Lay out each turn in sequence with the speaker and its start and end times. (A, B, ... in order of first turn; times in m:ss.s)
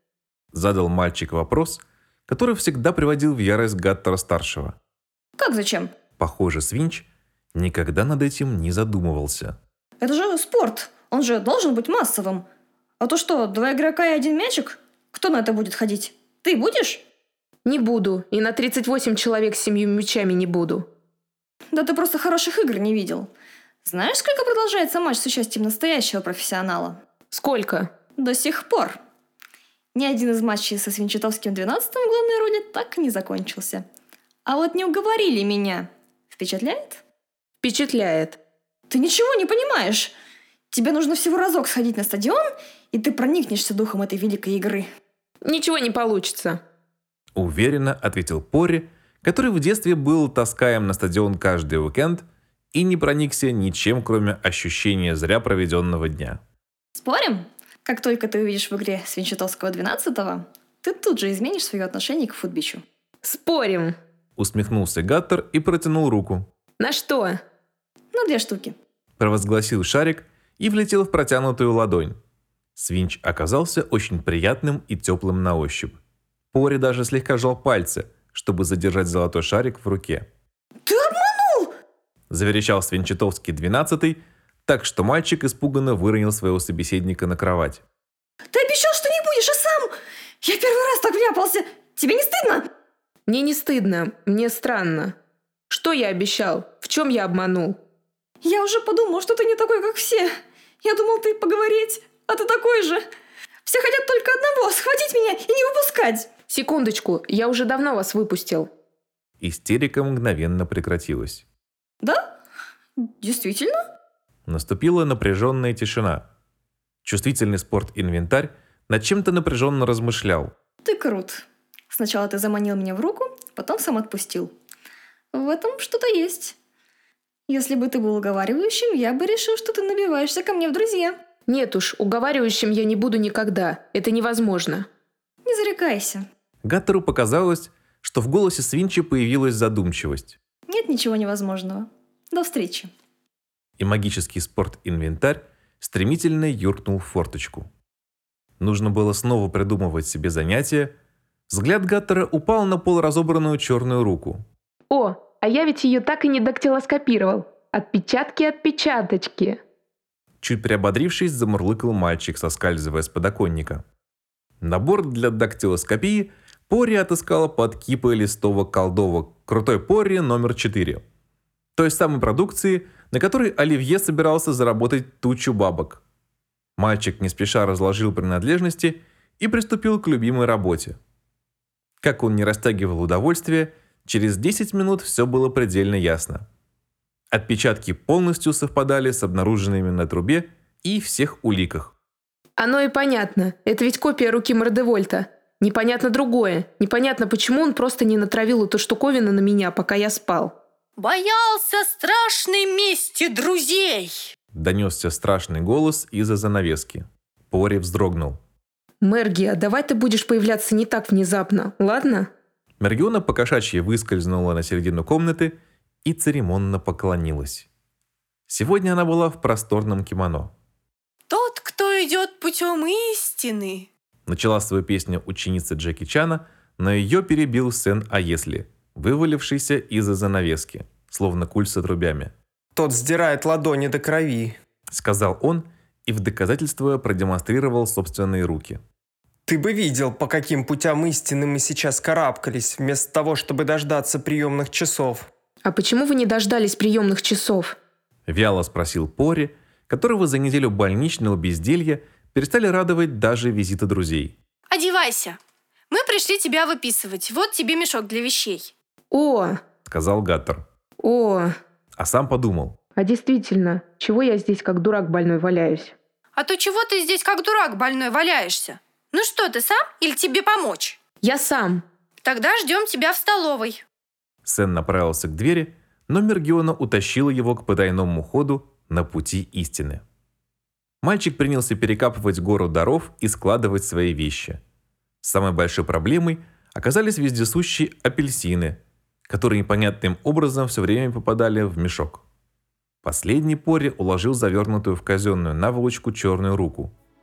0:00.5-0:04.8 A
0:05.4-0:05.9 B
0:06.2-0:09.6 A
0:10.0-0:12.4 B
0:13.0-0:17.0 B
0:17.6-0:20.9 C
0:21.7-0:23.3 B
0:23.8-0:27.0 B
0:27.3-0:27.9 C
0:28.2-0:29.0 B
0:29.9-0:33.8 B
0:34.4-0:37.0 B
0:37.6-0:38.4 C
0:38.9-0:40.1 B
0:40.7-0:44.9 B
0:45.4-0:46.6 C
0:47.3-0:56.4 A
0:57.0-1:02.8 B
1:03.2-1:04.0 C
1:04.4-1:06.5 A
1:06.8-1:07.4 C
1:08.1-1:08.8 B
1:09.2-1:12.2 A
1:12.8-1:16.0 A
1:16.5-1:20.3 A
1:20.8-1:21.7 B
1:22.3-1:27.8 A
1:28.5-1:29.9 B
1:30.4-1:32.6 B
1:33.3-1:35.1 C
1:35.7-1:37.8 C
1:38.4-1:40.3 B
1:40.8-1:43.0 B
1:43.6-1:46.3 B
1:46.5-1:48.7 C
1:49.4-1:51.4 A
1:53.0-1:53.8 B
1:54.5-1:56.2 A
1:57.0-2:00.5 A
2:00.8-2:04.5 B
2:05.3-2:06.6 B
2:07.5-2:11.2 B
2:11.5-2:14.8 C
2:15.4-2:16.2 B
2:16.6-2:20.4 A
2:20.7-2:22.9 B
2:23.8-2:27.7 A
2:28.6-2:30.9 A
2:31.5-2:34.4 A
2:34.9-2:39.6 C
2:40.4-2:43.8 A
2:44.6-2:51.0 A
2:51.7-2:56.0 A
2:56.8-3:01.0 A
3:02.0-3:06.4 A
3:07.3-3:11.9 A
3:12.6-3:20.5 C
3:21.0-3:24.3 D
3:24.5-3:28.4 A
3:29.0-3:32.3 C
3:32.8-3:37.7 A
3:38.5-3:40.5 A
3:41.3-3:43.9 D
3:44.3-3:52.3 A
3:52.8-3:54.5 E
3:54.9-3:58.8 A
3:59.5-4:05.3 E
4:05.6-4:07.8 C
4:08.3-4:14.3 A
4:14.7-4:15.4 D
4:15.9-4:18.7 D
4:19.1-4:19.6 C
4:19.9-4:20.6 A
4:21.0-4:21.5 C
4:22.0-4:22.8 A
4:23.0-4:26.0 C
4:26.4-4:31.0 D
4:31.2-4:31.8 C
4:32.2-4:33.8 D
4:34.4-4:40.0 A
4:41.0-4:44.6 A
4:45.2-4:52.2 A
4:53.0-4:56.9 A